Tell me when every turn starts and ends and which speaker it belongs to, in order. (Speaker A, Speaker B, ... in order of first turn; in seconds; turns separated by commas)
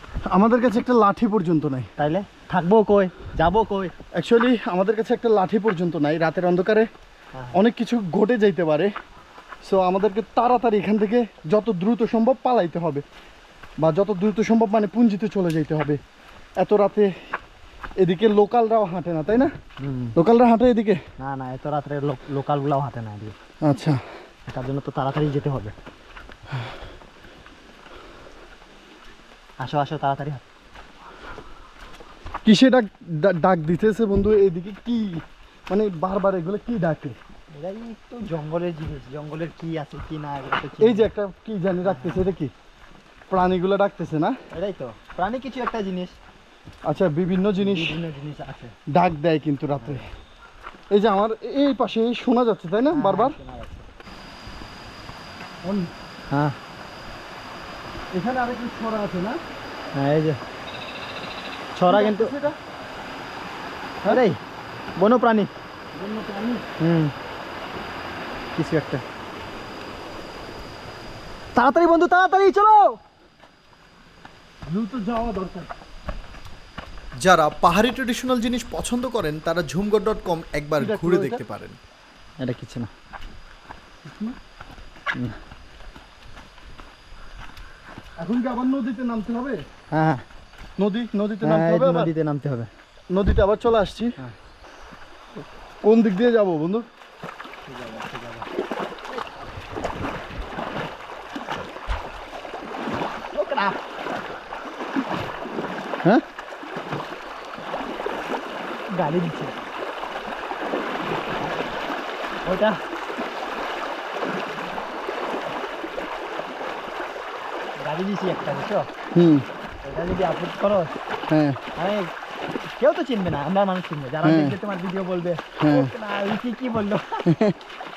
Speaker A: 0.3-1.9, Speaker B: 2.0-3.9, Speaker A: 4.2-6.9, Speaker A: 7.5-8.9, Speaker A: 9.6-13.0, Speaker A: 13.8-16.0, Speaker A: 16.6-17.1, Speaker A: 18.0-19.5, Speaker B: 19.8-20.1, Speaker A: 20.1-21.0, Speaker B: 21.2-23.4, Speaker A: 23.6-24.0, Speaker B: 24.5-25.7, Speaker B: 29.6-30.4, Speaker A: 32.4-37.2, Speaker B: 37.5-41.1, Speaker A: 40.8-42.5, Speaker B: 41.8-42.3, Speaker A: 43.3-44.4, Speaker B: 44.5-46.2, Speaker A: 46.9-48.0, Speaker B: 47.6-48.7, Speaker A: 48.9-50.0, Speaker B: 49.8-50.0, Speaker A: 50.9-53.4, Speaker B: 52.9-53.9, Speaker A: 55.6-55.9, Speaker B: 56.3-56.6, Speaker A: 58.1-59.4, Speaker B: 59.9-60.4, Speaker B: 61.7-62.3, Speaker A: 61.9-62.6, Speaker B: 64.1-64.4, Speaker B: 65.0-65.5, Speaker A: 65.9-66.6, Speaker B: 66.8-67.1, Speaker B: 68.5-69.0, Speaker B: 71.5-73.0, Speaker A: 74.7-75.7, Speaker C: 77.2-81.8, Speaker A: 80.8-81.4, Speaker B: 82.4-82.9, Speaker A: 84.0-84.3, Speaker A: 88.2-89.6, Speaker B: 89.9-90.2, Speaker A: 90.8-92.1, Speaker B: 91.4-92.7, Speaker A: 93.1-94.2, Speaker A: 95.8-96.8, Speaker B: 97.7-98.5, Speaker B: 103.3-103.8, Speaker B: 108.9-109.5, Speaker B: 112.4-112.8, Speaker B: 117.8-118.9, Speaker A: 119.1-119.5, Speaker B: 119.8-120.9, Speaker A: 121.3-121.6, Speaker B: 121.8-122.1, Speaker B: 122.7-127.3, Speaker A: 124.2-124.6, Speaker A: 125.6-125.9, Speaker A: 127.3-127.5